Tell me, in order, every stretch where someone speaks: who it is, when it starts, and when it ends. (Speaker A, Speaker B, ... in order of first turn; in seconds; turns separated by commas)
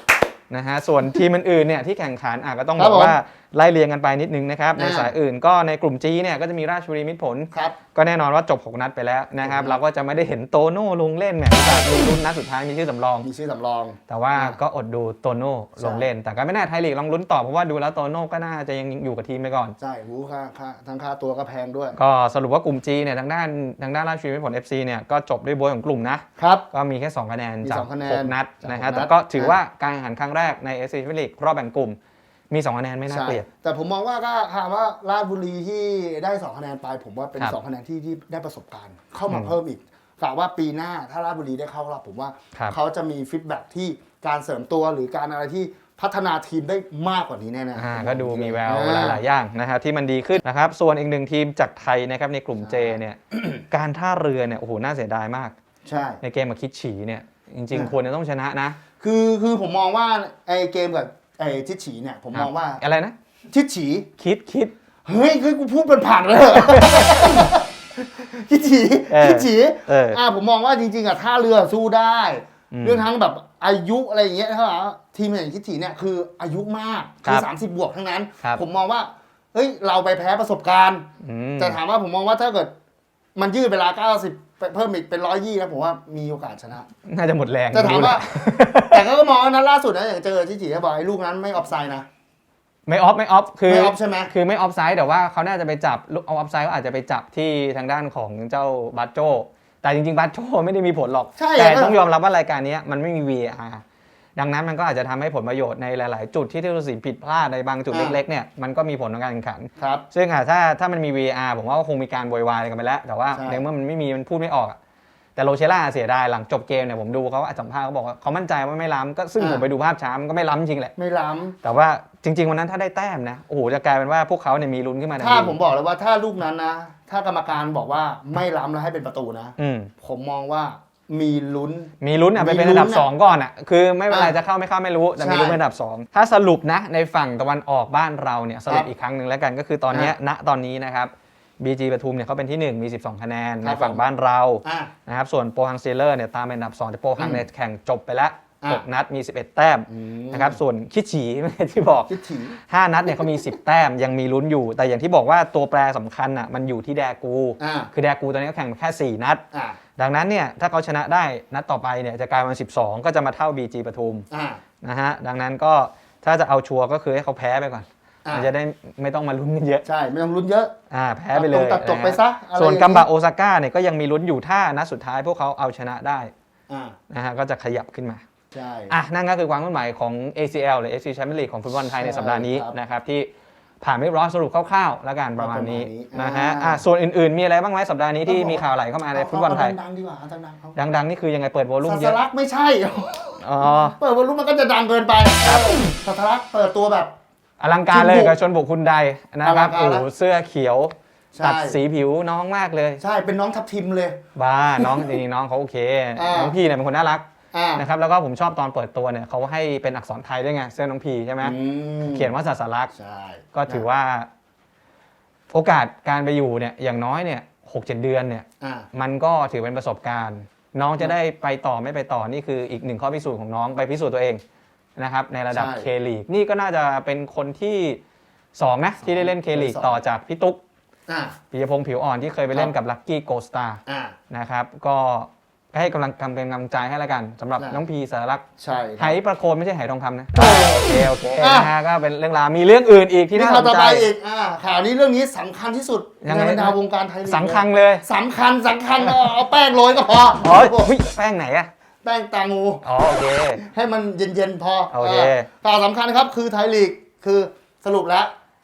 Speaker A: 0.5-13.3, Speaker B: 2.8-3.2, Speaker B: 4.8-5.2, Speaker B: 7.5-7.8, Speaker B: 9.4-9.8, Speaker B: 11.5-12.1, Speaker B: 13.2-14.6, Speaker A: 14.1-19.8, Speaker B: 15.8-16.1, Speaker B: 19.8-22.0, Speaker A: 21.9-32.0, Speaker B: 26.4-26.6, Speaker B: 27.6-29.6, Speaker A: 32.5-33.5, Speaker B: 33.1-49.2, Speaker A: 39.3-39.5, Speaker A: 47.7-55.5, Speaker B: 52.6-53.0, Speaker B: 55.8-56.2, Speaker A: 56.2-58.8, Speaker B: 58.8-62.8, Speaker A: 62.3-63.1, Speaker B: 63.5-64.1, Speaker A: 64.2-64.7, Speaker B: 65.0-81.0, Speaker A: 66.5-67.5, Speaker A: 69.1-70.2, Speaker A: 72.7-73.1, Speaker A: 81.2-81.8, Speaker B: 81.6-82.7, Speaker B: 83.3-86.9, Speaker A: 87.0-89.1, Speaker B: 87.7-92.1, Speaker A: 92.8-103.8, Speaker B: 93.7-94.3, Speaker B: 101.3-102.0, Speaker A: 104.3-114.8, Speaker B: 107.9-108.2, Speaker B: 109.8-110.0, Speaker B: 113.3-113.6, Speaker A: 115.3-120.9, Speaker B: 119.4-119.7, Speaker B: 121.0-121.6, Speaker A: 121.6-125.5, Speaker B: 125.2-133.1, Speaker A: 129.6-129.9, Speaker A: 132.0-159.4, Speaker B: 134.1-134.3, Speaker B: 135.2-135.6, Speaker B: 139.9-140.2, Speaker B: 143.6-144.0, Speaker B: 144.6-144.9, Speaker B: 147.2-147.4, Speaker B: 148.6-148.8, Speaker B: 149.9-150.6, Speaker B: 152.1-152.6, Speaker B: 157.6-157.9, Speaker B: 159.5-159.8, Speaker A: 159.9-164.2, Speaker B: 164.3-164.6, Speaker A: 164.8-169.8, Speaker B: 169.8-170.8, Speaker A: 170.9-176.3, Speaker B: 171.3-173.1, Speaker B: 176.7-177.0, Speaker A: 177.1-178.2, Speaker B: 178.5-178.9, Speaker A: 178.9-183.3, Speaker B: 181.7-182.8, Speaker A: 183.8-189.8, Speaker B: 185.4-186.8, Speaker B: 188.2-190.8, Speaker A: 190.8-192.2, Speaker B: 191.8-197.1, Speaker A: 193.4-194.0, Speaker A: 195.4-195.9, Speaker A: 197.6-203.0, Speaker B: 197.9-198.4, Speaker B: 199.4-200.0, Speaker B: 201.3-201.8, Speaker B: 203.0-204.2, Speaker A: 204.3-207.2, Speaker B: 204.7-205.2, Speaker B: 206.2-206.6, Speaker B: 207.5-207.9, Speaker A: 207.8-211.6, Speaker B: 211.4-212.3, Speaker A: 212.1-212.9, Speaker B: 212.9-213.9, Speaker A: 213.5-214.3, Speaker A: 215.5-224.4, Speaker B: 218.6-218.9, Speaker A: 225.0-228.0, Speaker B: 225.5-225.9, Speaker A: 228.5-230.6, Speaker B: 229.0-230.0, Speaker B: 231.1-231.4, Speaker A: 231.5-238.4, Speaker B: 232.5-232.8, Speaker B: 233.8-234.2, Speaker B: 237.6-237.8, Speaker B: 238.6-239.2, Speaker A: 239.0-244.1, Speaker B: 240.3-241.7, Speaker B: 243.3-250.9, Speaker A: 246.2-248.0, Speaker A: 250.4-251.7, Speaker B: 252.0-258.3, Speaker A: 252.8-253.6, Speaker A: 254.9-255.5